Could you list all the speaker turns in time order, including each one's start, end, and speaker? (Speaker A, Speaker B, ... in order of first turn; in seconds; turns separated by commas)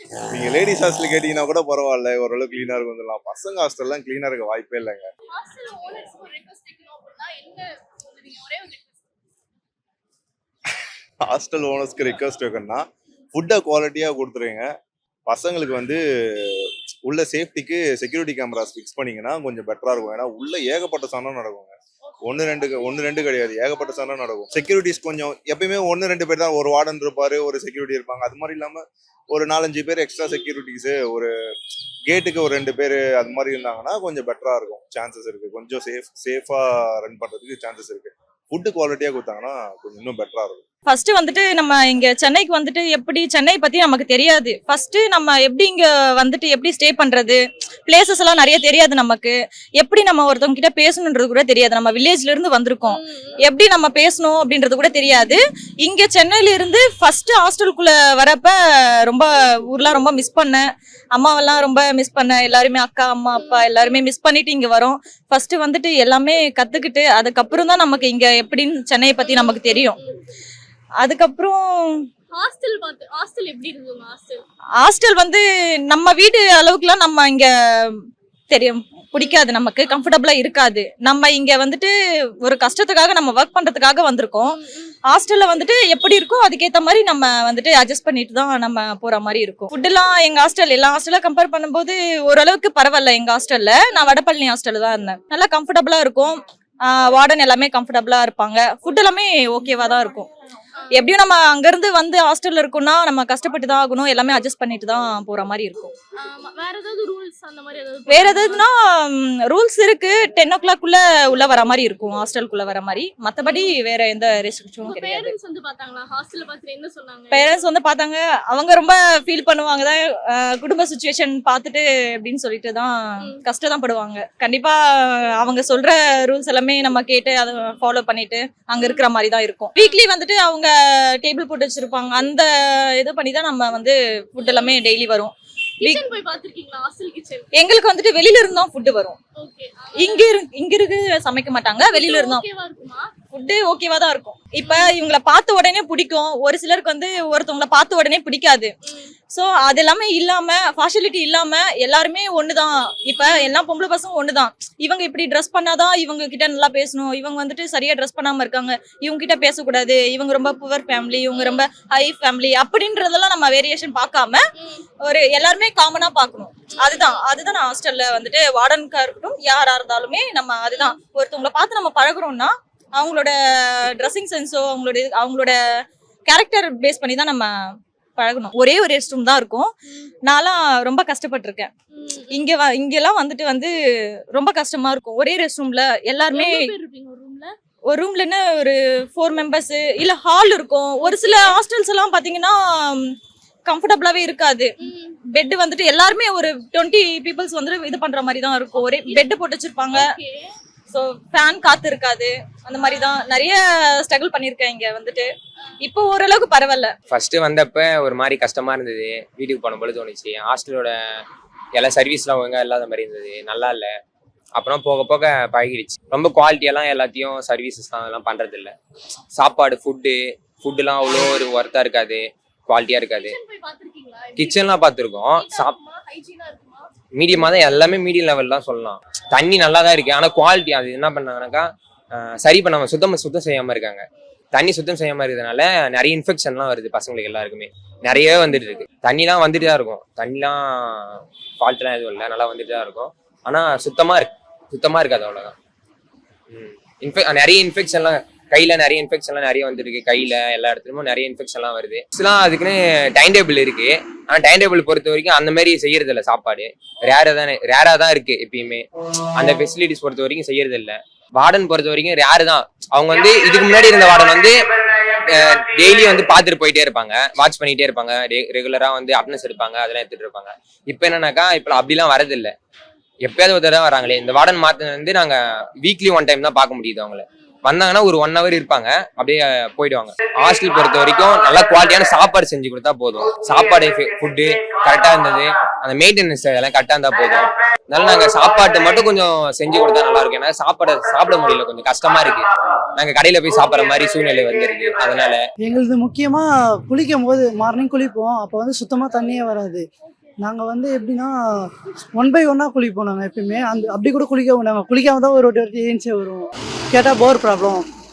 Speaker A: 0.3-5.1, Speaker B: 5.3-9.0, Speaker A: 11.3-14.7, Speaker A: 15.3-31.3, Speaker B: 22.0-24.7, Speaker A: 32.1-40.6, Speaker C: 40.9-58.6, Speaker B: 52.9-53.4, Speaker C: 59.1-70.0, Speaker B: 63.4-64.0, Speaker B: 69.2-70.2, Speaker C: 71.0-72.0, Speaker B: 72.3-74.4, Speaker C: 74.8-81.9, Speaker B: 79.2-80.0, Speaker C: 82.4-84.6, Speaker B: 84.5-85.0, Speaker C: 85.1-100.3, Speaker B: 100.8-101.1, Speaker C: 100.9-105.9, Speaker B: 106.2-108.7, Speaker C: 108.1-115.3, Speaker B: 113.5-113.7, Speaker B: 114.8-117.5, Speaker C: 117.3-136.1, Speaker B: 128.8-129.1, Speaker B: 134.4-134.8, Speaker B: 135.8-137.5, Speaker C: 137.6-139.2, Speaker B: 139.4-140.4, Speaker C: 140.0-142.4, Speaker B: 141.9-143.1, Speaker C: 143.3-148.7, Speaker B: 144.6-144.9, Speaker B: 148.9-149.1, Speaker C: 149.3-164.4, Speaker B: 153.2-153.5, Speaker B: 161.3-161.7, Speaker B: 164.6-164.8, Speaker C: 165.0-175.6, Speaker B: 166.7-167.3, Speaker B: 170.7-171.0, Speaker C: 176.3-177.5, Speaker C: 178.2-179.7, Speaker C: 180.3-181.7, Speaker B: 181.9-182.4, Speaker C: 182.3-183.7, Speaker C: 184.3-186.7, Speaker B: 186.3-187.5, Speaker C: 187.9-193.1, Speaker B: 191.0-191.6, Speaker C: 193.7-194.8, Speaker B: 194.8-195.2, Speaker C: 195.3-200.1, Speaker B: 198.8-199.3, Speaker B: 199.9-200.5, Speaker C: 200.9-205.3, Speaker B: 202.8-203.2, Speaker C: 205.8-206.9, Speaker D: 207.1-210.9, Speaker D: 211.7-213.9, Speaker D: 214.6-218.8, Speaker D: 219.3-223.4, Speaker B: 223.1-227.7, Speaker D: 224.4-225.8, Speaker D: 227.1-245.5, Speaker D: 246.5-264.6, Speaker D: 265.3-272.5, Speaker D: 273.2-295.4, Speaker E: 295.6-299.9, Speaker B: 300.1-300.4, Speaker E: 300.4-301.4, Speaker E: 302.1-307.9, Speaker B: 303.4-303.9